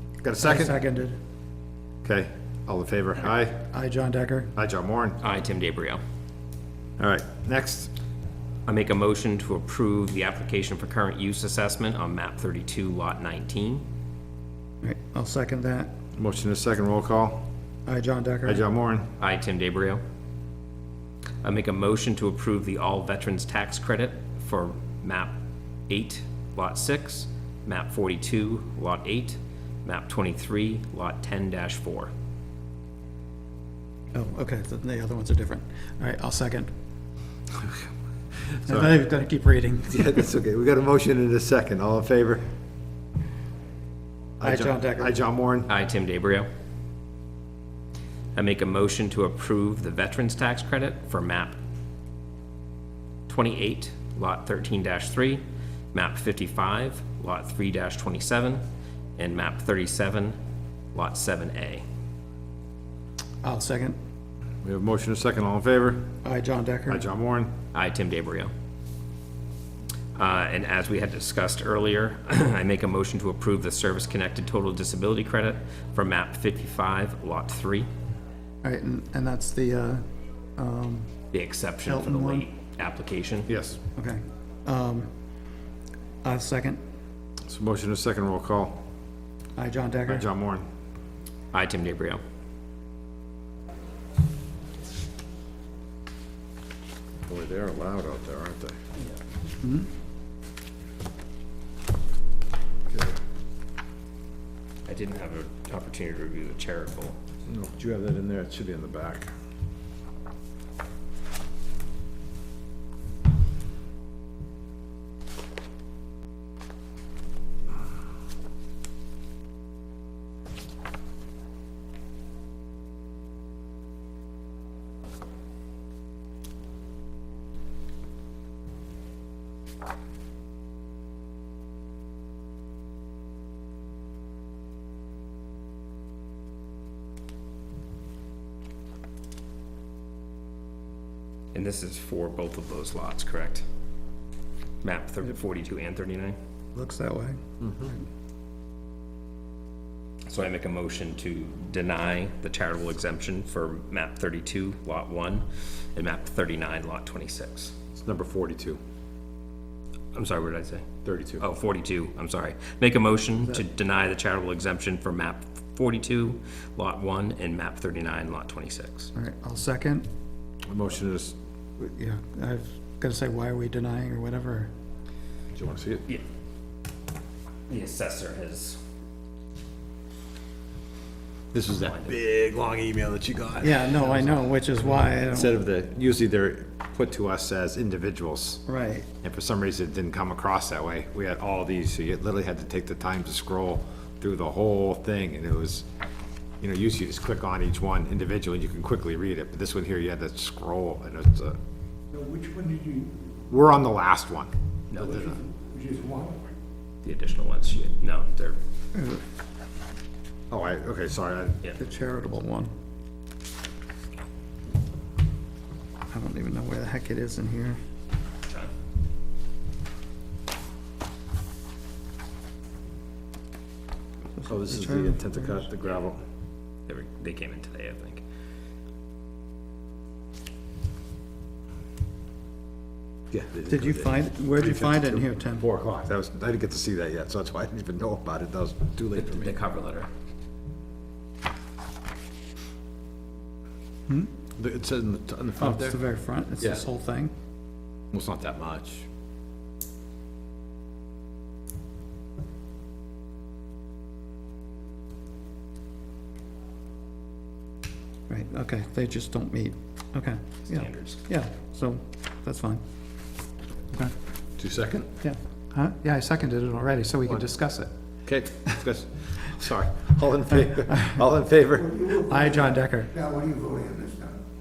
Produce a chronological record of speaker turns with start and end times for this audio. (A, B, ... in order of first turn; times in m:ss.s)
0:00.2-0:00.8 A
0:00.4-0:01.2 B
0:02.0-0:03.6 A
0:03.7-0:04.5 B
0:04.6-0:05.2 A
0:05.2-0:06.0 C
0:07.0-0:07.9 A
0:08.7-0:13.8 C
0:14.8-0:15.9 B
0:16.2-0:17.5 A
0:17.9-0:18.6 B
0:18.4-0:19.1 A
0:19.2-0:20.0 C
0:21.4-0:25.3 C
0:25.9-0:32.1 C
0:34.1-0:36.7 B
0:37.5-0:37.9 A
0:38.4-0:38.9 A
0:38.6-0:40.2 B
0:39.9-0:42.5 A
0:44.4-0:45.7 A
0:44.4-0:45.2 B
0:45.7-0:46.5 C
0:48.4-0:51.6 C
0:53.3-0:55.4 C
0:55.9-0:58.6 C
0:59.2-1:00.4 C
1:00.9-1:01.8 C
1:03.4-1:04.0 B
1:04.6-1:06.1 A
1:06.2-1:07.0 B
1:06.9-1:07.5 A
1:07.7-1:08.5 C
1:10.2-1:17.9 C
1:18.6-1:20.0 B
1:20.6-1:21.1 B
1:21.3-1:23.5 C
1:21.8-1:22.5 B
1:23.5-1:23.8 A
1:24.0-1:25.1 B
1:26.2-1:26.8 B
1:27.5-1:28.8 A
1:29.6-1:30.2 B
1:30.1-1:30.6 A
1:31.5-1:32.2 C
1:37.3-1:38.8 A
1:39.6-1:39.9 B
1:42.9-1:43.2 A
1:44.9-1:47.2 C
1:47.5-1:49.3 A
2:21.5-2:23.6 C
2:24.8-2:26.4 C
2:26.8-2:28.0 B
2:27.6-2:27.9 A
2:30.3-2:37.8 C
2:37.9-2:38.8 A
2:40.1-2:40.9 C
2:41.0-2:41.4 A
2:41.4-2:49.1 C
2:49.2-2:50.1 B
2:50.7-2:51.4 A
2:51.8-2:54.7 B
2:55.5-2:56.1 A
2:57.7-2:58.8 C
3:01.5-3:08.6 A
3:01.8-3:02.1 C
3:03.6-3:05.6 B
3:08.7-3:09.1 B
3:09.2-3:15.9 A
3:16.6-3:21.6 A
3:22.1-3:23.1 D
3:23.5-3:25.4 A
3:24.9-3:25.3 C
3:25.4-3:26.4 D
3:27.0-3:28.6 C
3:29.0-3:29.2 B
3:30.5-3:31.6 A
3:31.8-3:32.7 B
3:36.1-3:37.8 B
3:44.4-3:45.6 B
3:44.5-3:46.2 A
3:46.9-3:48.2 C
3:53.3-3:59.6 A
3:53.7-3:55.7 B
3:59.1-4:00.1 C
4:04.6-4:06.0 A
4:05.6-4:07.3 B
4:08.1-4:09.1 A
4:18.3-4:22.8 B
4:20.7-4:21.2 C
4:24.6-4:25.1 A
4:25.2-4:27.9 B
4:28.2-4:32.0 A
4:30.7-4:31.2 B
4:31.9-4:34.4 D
4:32.2-4:33.1 B